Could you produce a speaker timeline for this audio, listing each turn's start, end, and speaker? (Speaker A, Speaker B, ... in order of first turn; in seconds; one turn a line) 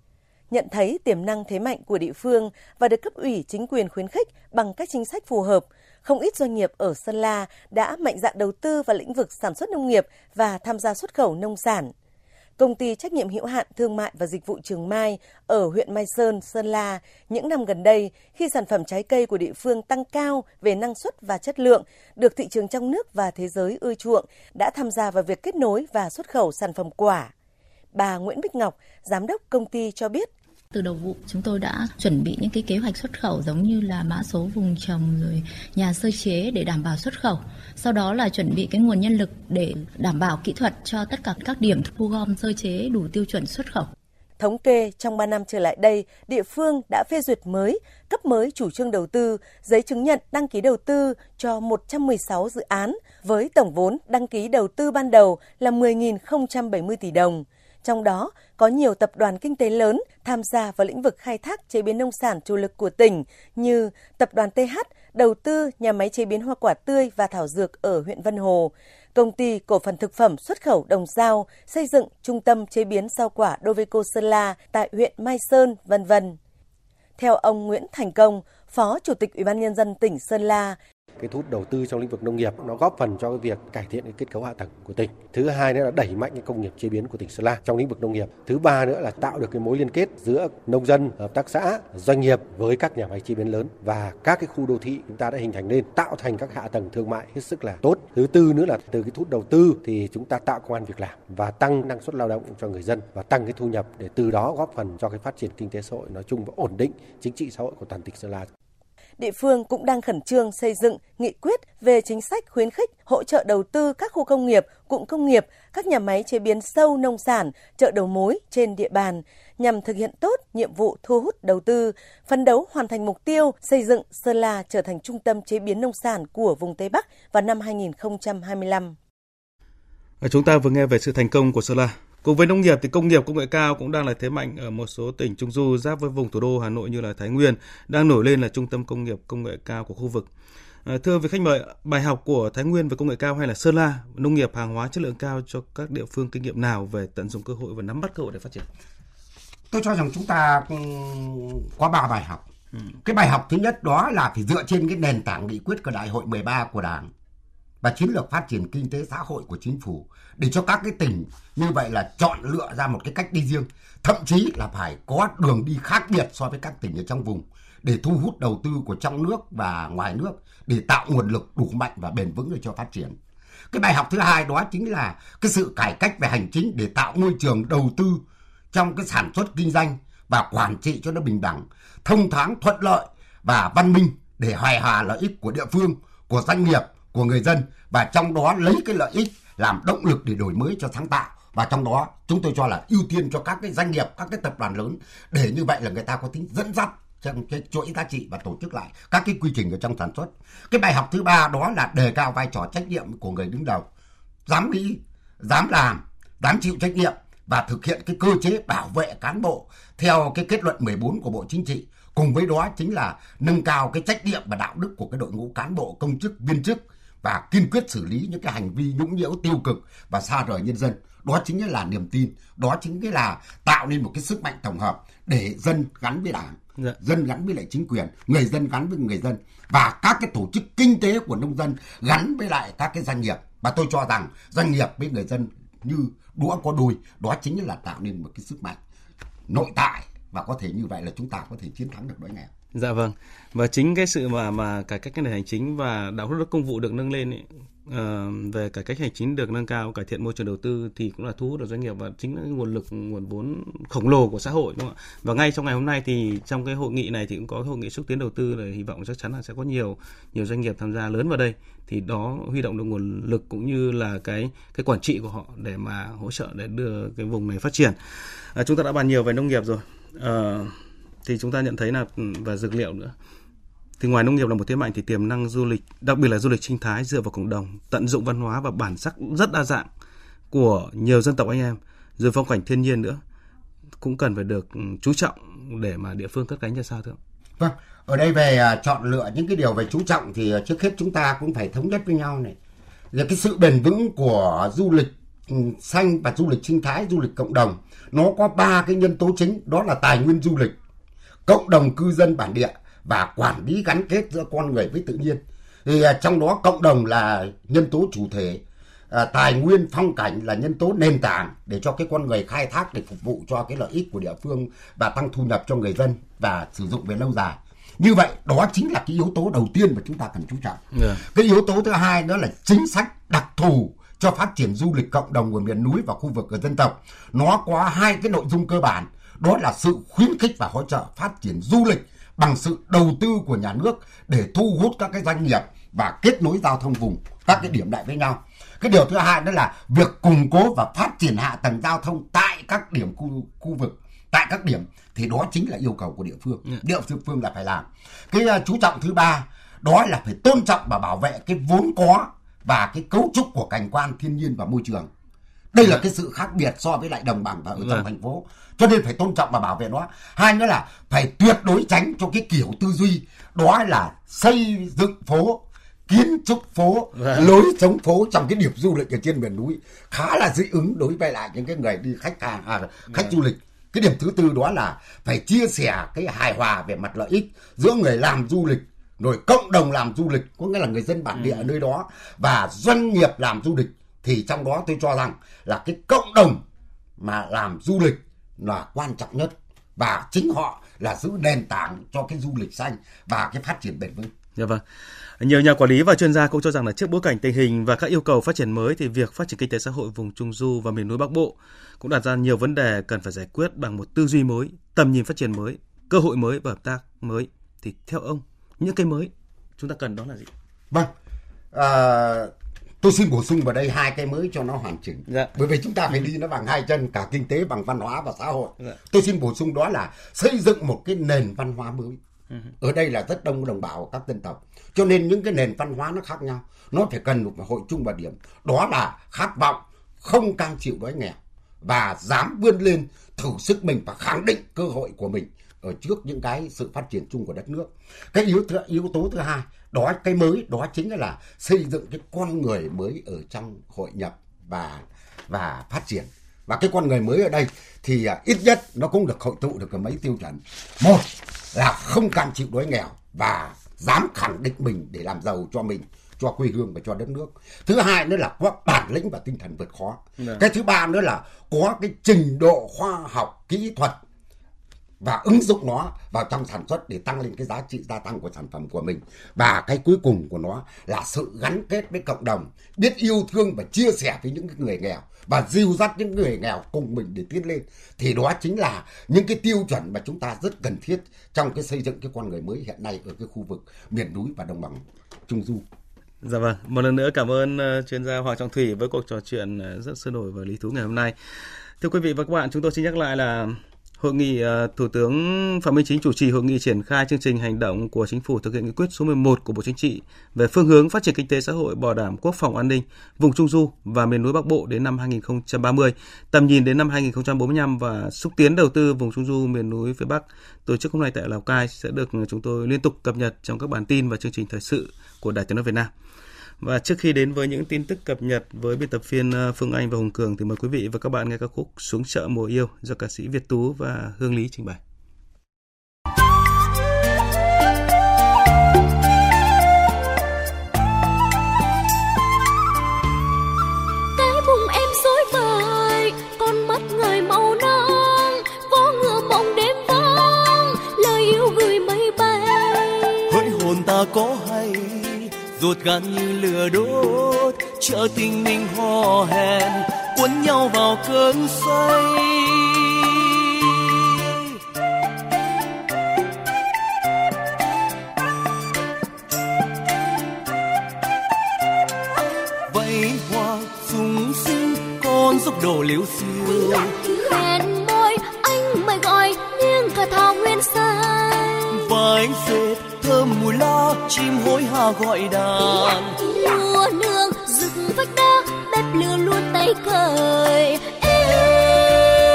Speaker A: 0.5-11.9
Speaker A: 12.6-27.3
Speaker A: 27.9-30.3
Speaker B: 30.7-43.9
Speaker A: 44.4-76.4
Speaker A: 77.2-80.8
Speaker C: 81.2-108.5
Speaker A: 109.2-128.9
Speaker D: 130.2-140.3
Speaker D: 140.8-148.7
Speaker E: 149.7-152.4
Speaker E: 153.0-157.1
Speaker E: 157.8-173.2
Speaker E: 173.7-203.9
Speaker E: 204.5-238.8
Speaker E: 239.5-242.5
Speaker D: 242.7-268.0
Speaker D: 268.5-273.1
Speaker D: 274.0-279.9
Speaker D: 280.5-283.2
Speaker D: 284.0-287.2
Speaker E: 287.6-292.6
Speaker E: 293.1-300.7
Speaker E: 301.4-355.1
Speaker D: 320.9-321.2
Speaker E: 355.7-386.6
Speaker D: 367.1-367.5
Speaker D: 381.3-381.7
Speaker E: 387.2-394.3
Speaker D: 394.6-394.8
Speaker D: 395.4-410.5
Speaker E: 411.7-422.2
Speaker E: 422.8-464.2
Speaker E: 465.2-485.9
Speaker D: 486.4-491.3
Speaker D: 492.0-516.1
Speaker D: 516.8-525.0
Speaker F: 534.4-543.4
Speaker G: 543.5-554.6
Speaker G: 562.9-567.2
Speaker F: 567.2-572.0
Speaker G: 571.9-576.4
Speaker F: 575.8-582.3